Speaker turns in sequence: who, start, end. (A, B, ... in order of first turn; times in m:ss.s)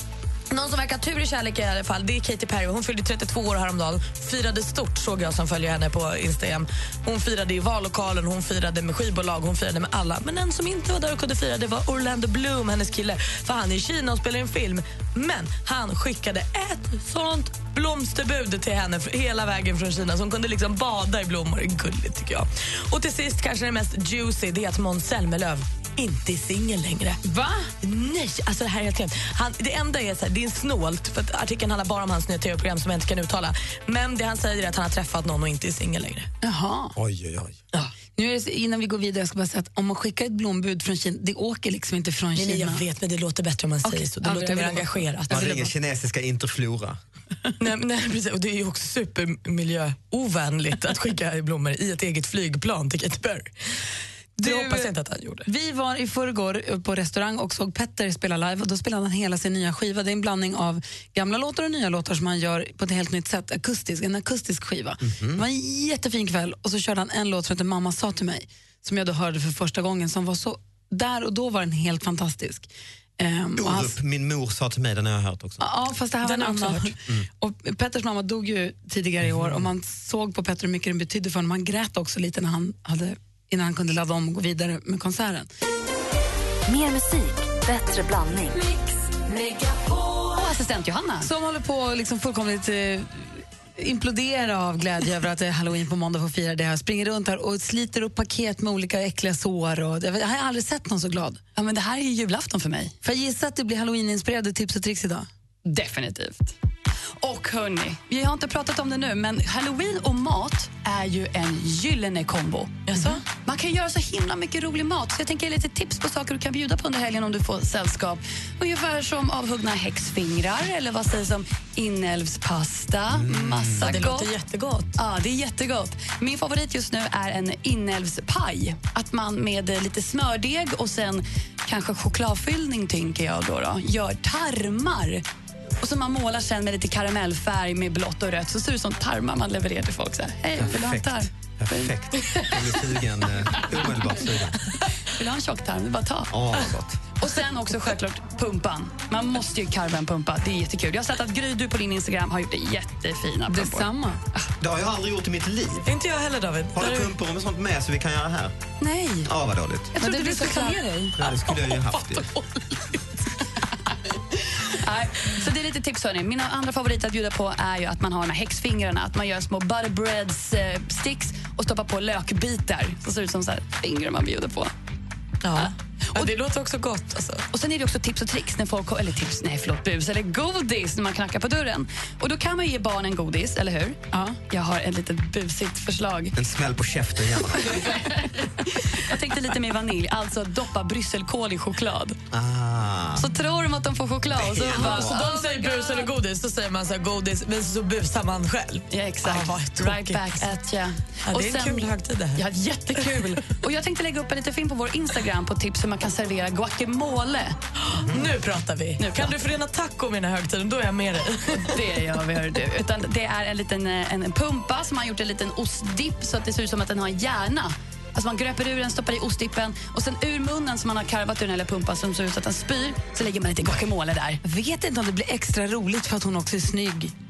0:00.5-0:27.2 A
0:27.2-0:27.7 B
0:27.8-0:36.3 A
0:36.4-0:36.9 B
0:37.0-0:37.6 C
0:37.8-0:42.8 B
0:42.4-0:45.6 A
0:43.8-0:45.6 B
0:45.3-0:47.0 C
0:47.6-0:53.5 A
0:54.4-0:54.9 B
0:54.4-0:55.5 A
0:55.4-1:12.7 B
1:05.0-1:05.4 C
1:13.2-1:13.9 B
1:13.6-1:15.6 C
1:15.6-1:25.5 B
1:16.2-1:16.9 A
1:19.2-1:19.6 C
1:26.7-1:28.7 D
1:30.3-1:31.3 E
1:31.2-1:41.4 B
1:41.5-1:42.9 E
1:43.0-1:45.3 B
1:45.6-1:46.5 E
1:47.2-1:52.9 E
1:52.9-1:53.2 A
1:53.4-2:04.3 E
2:03.1-2:03.9 C
2:03.8-2:04.9 A
2:05.0-2:15.2 E
2:15.8-2:21.9 E
2:20.6-2:24.6 C
2:25.2-2:26.3 E
2:26.3-2:27.0 C
2:27.2-2:33.9 E
2:33.5-2:34.2 B
2:34.6-2:35.9 C
2:35.8-2:37.1 A
2:36.7-2:38.5 C
2:38.8-2:39.2 B
2:39.2-2:39.9 C
2:39.9-2:41.1 B
2:40.2-2:40.7 A
2:41.2-2:42.2 C
2:44.8-2:54.7 E
2:55.4-2:57.4 A
2:55.6-2:56.3 E
2:57.5-3:06.3 E
3:06.4-3:07.8 C
3:08.7-3:12.2 E
3:12.3-3:13.3 C
3:13.2-3:16.0 E
3:14.3-3:15.2 C
3:14.7-3:20.5 A
3:18.9-3:27.6 E
3:21.3-3:23.4 A
3:27.8-3:31.9 A
3:29.0-3:29.3 E
3:31.7-3:44.4 E
3:44.4-3:47.1 B